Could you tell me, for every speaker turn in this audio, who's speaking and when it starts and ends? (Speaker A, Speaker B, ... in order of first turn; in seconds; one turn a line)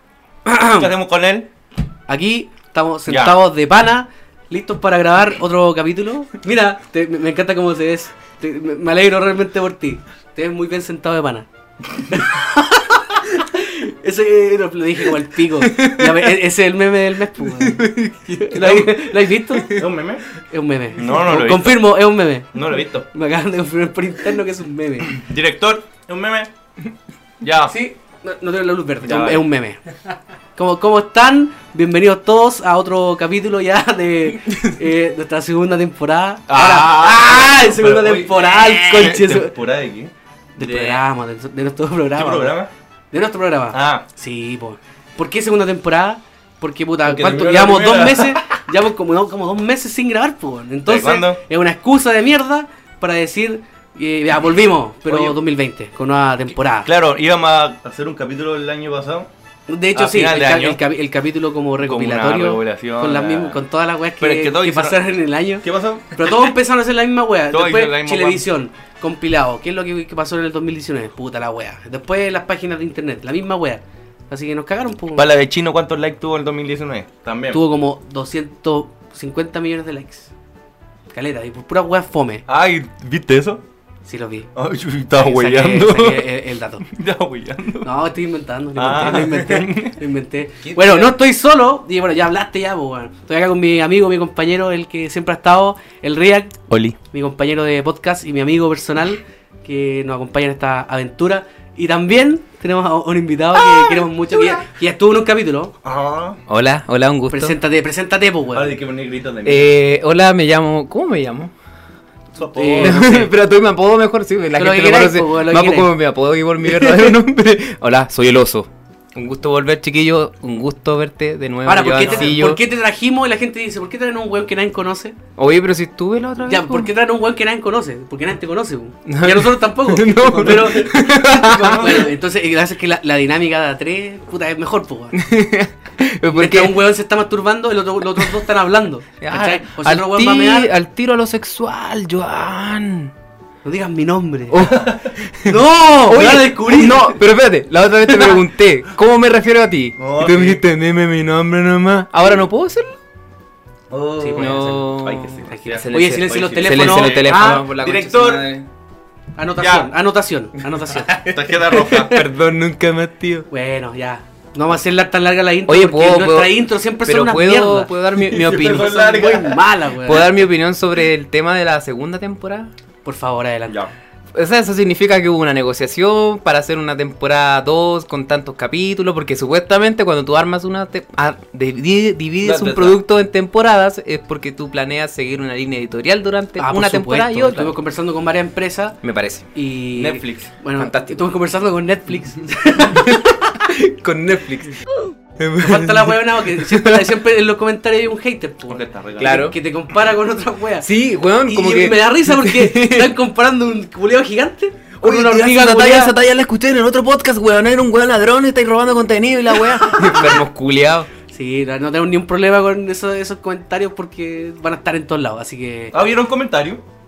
Speaker A: 0.4-0.9
Speaker B: 0.8-1.5
Speaker A: 2.1-11.5
Speaker B: 3.1-3.4
Speaker A: 12.0-17.9
Speaker C: 15.6-16.3
Speaker C: 17.5-19.9
Speaker A: 18.4-19.7
Speaker B: 19.7-20.2
Speaker A: 20.5-25.1
Speaker B: 20.9-21.9
Speaker B: 22.5-23.1
Speaker B: 25.1-26.5
Speaker B: 27.4-27.7
Speaker A: 27.7-29.8
Speaker B: 29.0-29.4
Speaker A: 30.6-39.5
Speaker B: 36.5-40.1
Speaker A: 40.5-42.6
Speaker C: 40.6-41.0
Speaker B: 42.1-42.7
Speaker A: 43.1-56.9
Speaker B: 43.7-44.0
Speaker B: 47.0-48.6
Speaker B: 50.9-51.4
Speaker B: 55.1-55.4
Speaker B: 56.8-59.3
Speaker A: 59.7-75.3
Speaker B: 59.9-60.8
Speaker B: 61.8-63.6
Speaker B: 64.2-65.1
Speaker B: 65.6-66.5
Speaker B: 67.5-68.5
Speaker B: 75.1-77.6
Speaker A: 77.5-80.3
Speaker A: 81.1-82.4
Speaker B: 82.5-83.6
Speaker A: 84.0-84.5
Speaker B: 84.5-86.3
Speaker A: 85.1-86.8
Speaker B: 86.8-87.9
Speaker A: 87.8-96.5
Speaker B: 88.8-90.0
Speaker C: 90.6-91.1
Speaker B: 96.7-97.0
Speaker A: 97.1-105.8
Speaker B: 105.8-106.4
Speaker C: 106.5-107.6
Speaker A: 107.3-108.8
Speaker B: 108.5-109.7
Speaker C: 109.4-111.5
Speaker B: 112.3-113.2
Speaker A: 112.5-113.3
Speaker C: 112.8-122.6
Speaker A: 114.5-115.9
Speaker A: 116.6-117.1
Speaker A: 121.7-125.2
Speaker B: 122.0-122.3
Speaker C: 125.4-126.9
Speaker A: 126.4-135.2
Speaker C: 129.1-132.0
Speaker B: 130.6-130.9
Speaker B: 131.6-132.1
Speaker C: 135.1-136.8
Speaker A: 136.3-140.7
Speaker C: 139.2-143.1
Speaker A: 143.6-144.7
Speaker C: 144.5-152.9
Speaker B: 144.7-145.0
Speaker A: 145.4-147.2
Speaker B: 150.0-150.6
Speaker B: 153.9-158.4
Speaker A: 154.2-157.6
Speaker C: 154.3-158.7
Speaker A: 159.4-162.2
Speaker B: 159.6-159.9
Speaker C: 160.9-161.2
Speaker B: 161.2-162.2
Speaker C: 162.1-163.5
Speaker A: 163.5-167.9
Speaker C: 165.7-168.9
Speaker B: 168.2-169.6
Speaker A: 168.4-170.3
Speaker C: 170.0-172.7
Speaker A: 173.0-173.8
Speaker C: 174.3-187.7
Speaker B: 182.4-183.0
Speaker A: 186.6-189.0
Speaker C: 189.0-189.4
Speaker A: 189.5-193.5
Speaker B: 189.9-190.5
Speaker C: 190.8-191.3
Speaker C: 192.9-194.8
Speaker C: 195.4-197.2
Speaker A: 195.6-200.9
Speaker B: 198.7-199.4
Speaker C: 199.2-199.5
Speaker C: 200.8-203.1
Speaker A: 201.4-206.1
Speaker C: 205.0-211.1
Speaker A: 210.0-210.2
Speaker A: 211.3-215.9
Speaker B: 215.9-216.8